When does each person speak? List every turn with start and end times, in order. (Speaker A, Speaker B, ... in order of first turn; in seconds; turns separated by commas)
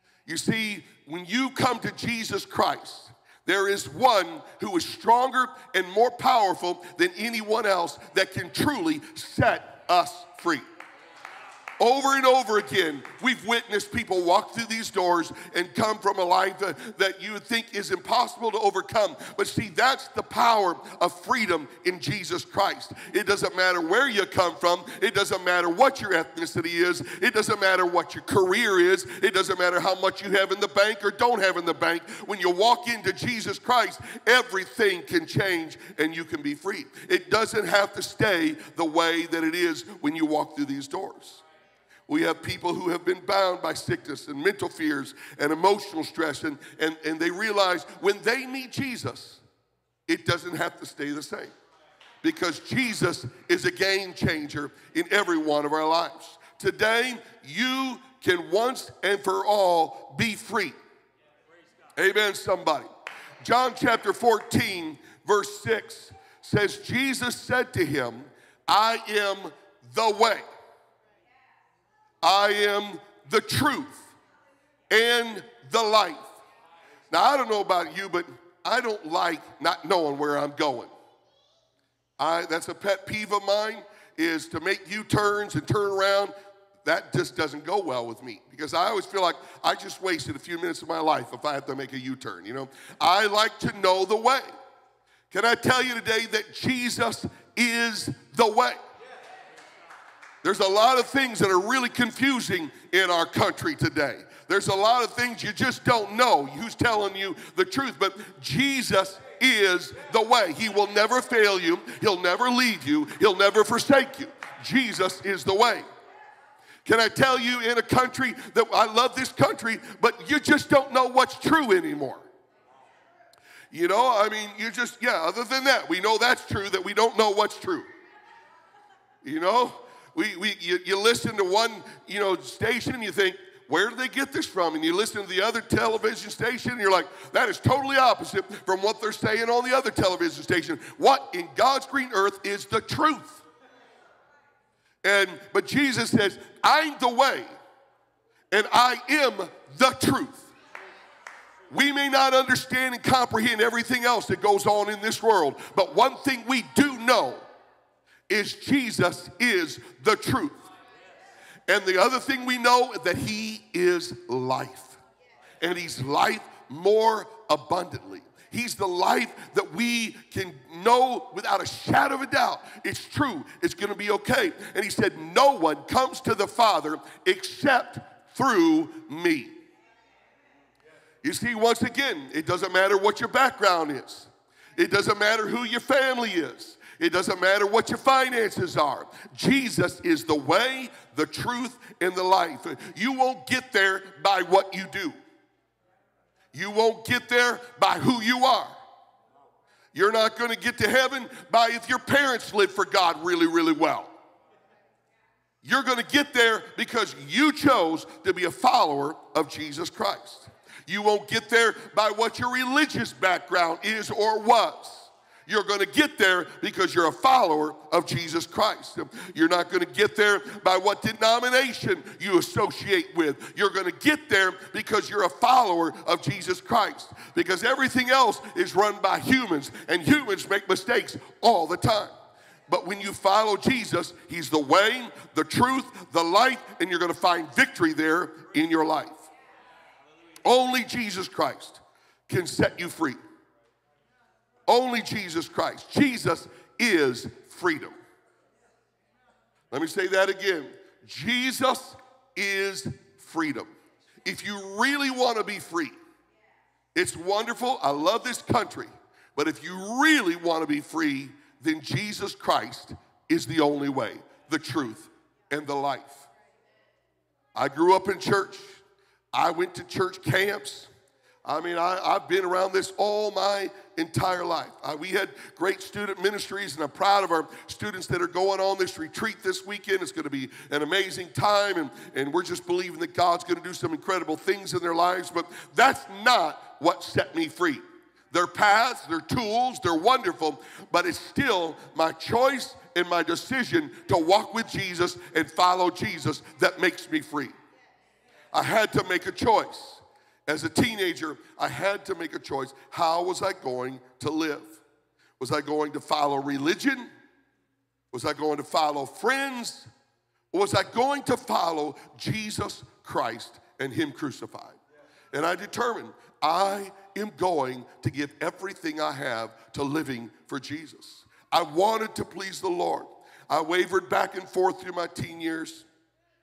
Speaker A: 0.2-10.6, Speaker A: 11.8-41.4, Speaker A: 42.1-49.4, Speaker A: 50.1-51.5, Speaker A: 52.2-60.8, Speaker A: 62.0-62.9, Speaker A: 63.4-70.4, Speaker A: 72.2-74.1, Speaker A: 74.9-76.3, Speaker A: 77.1-80.9, Speaker A: 82.2-94.5, Speaker A: 95.3-98.8, Speaker A: 100.4-115.8, Speaker A: 116.8-122.3, Speaker A: 123.7-127.9, Speaker A: 129.2-143.4, Speaker A: 145.0-147.5, Speaker A: 148.5-150.5, Speaker A: 151.7-157.4, Speaker A: 158.3-160.6, Speaker A: 161.7-165.0, Speaker A: 165.6-179.6, Speaker A: 181.2-195.2, Speaker A: 196.5-198.8, Speaker A: 199.9-204.1, Speaker A: 205.6-232.1, Speaker A: 232.7-239.2, Speaker A: 240.4-243.2, Speaker A: 244.7-247.9, Speaker A: 249.7-253.7, Speaker A: 254.2-255.9, Speaker A: 256.9-266.3, Speaker A: 267.5-268.8, Speaker A: 269.3-270.9, Speaker A: 271.4-297.5, Speaker A: 298.5-304.8, Speaker A: 305.4-307.1, Speaker A: 308.1-309.9, Speaker A: 310.5-314.8, Speaker A: 315.3-325.9